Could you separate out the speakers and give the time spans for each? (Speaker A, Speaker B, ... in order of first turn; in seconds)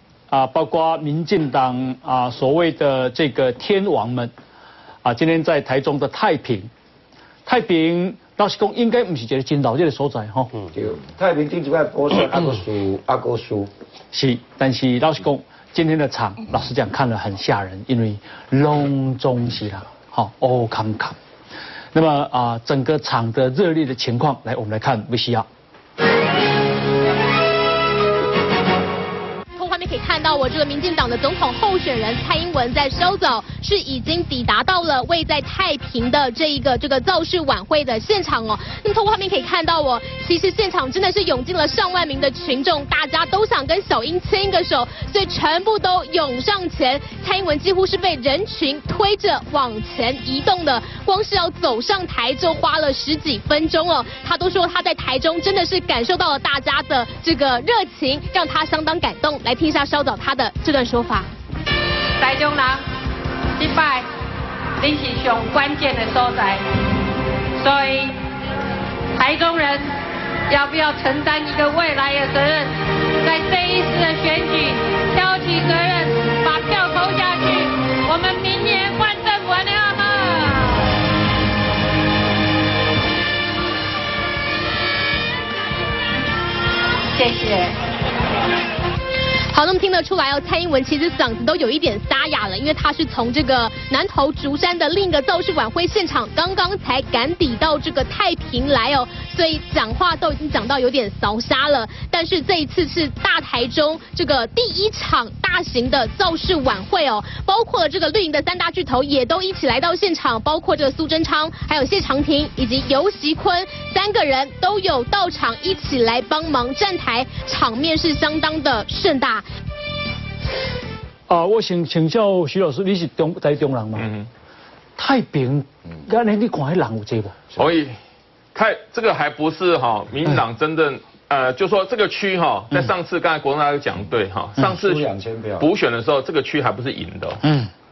Speaker A: 0.3-4.3, 5.0-6.7, 7.5-10.5, 14.1-21.1, 21.9-25.4, 121.3-124.1, 125.0-127.3
Speaker B: 10.7-13.7, 134.6-135.7
Speaker C: 29.6-61.3, 89.5-119.5
Speaker D: 62.2-62.8, 63.6-64.1, 64.8-66.6, 67.6-68.1, 69.1-69.9, 70.5-80.9, 87.1-87.7
Speaker E: 123.9-124.3, 127.6-128.0, 128.5-137.4